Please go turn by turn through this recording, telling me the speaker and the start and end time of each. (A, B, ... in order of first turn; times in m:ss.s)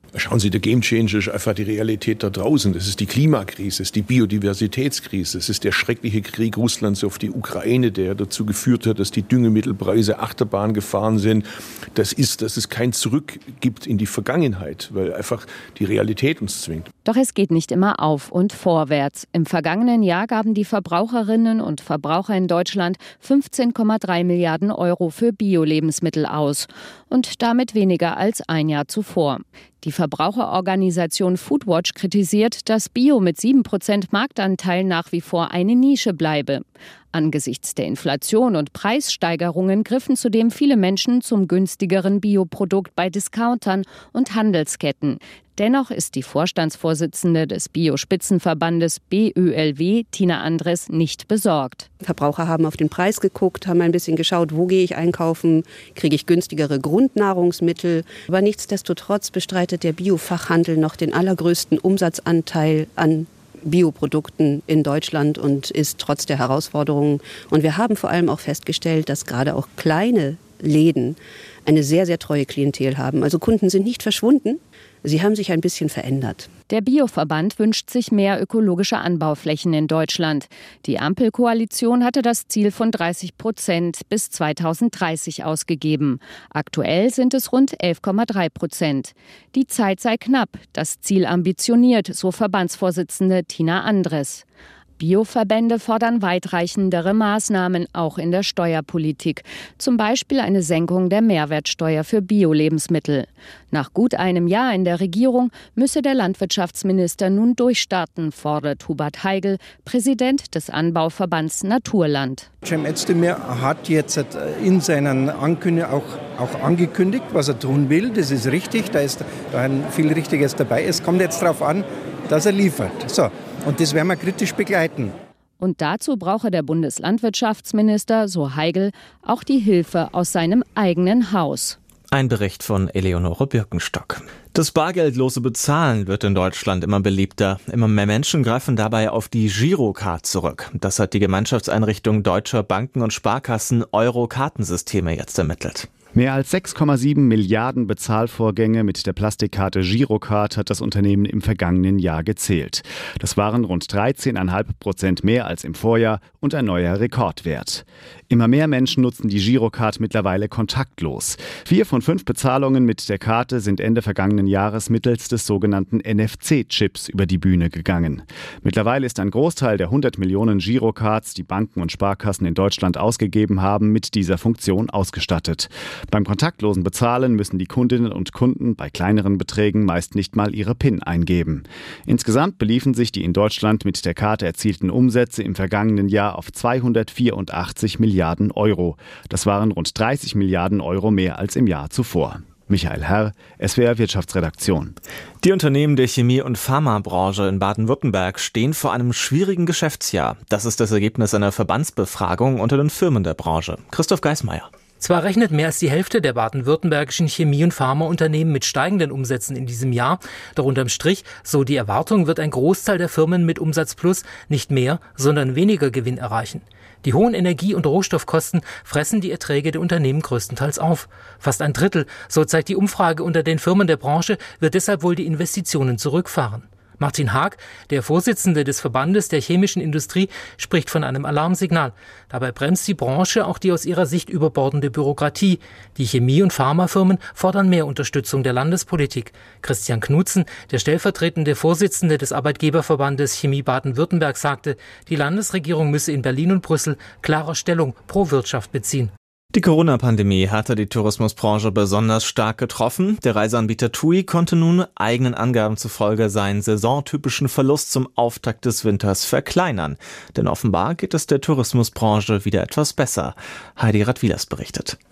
0:00.1-0:16.9 A
0:17.0-0:51.9 B
0:52.0-1:16.5 C
1:16.7-1:34.4 B
1:35.0-1:52.5 B
1:52.6-2:05.1 D
2:05.6-2:11.8 B
2:12.1-2:25.9 E
2:26.1-3:15.0 F
3:15.4-3:24.7 E
3:25.0-4:09.1 G
4:09.5-4:25.0 E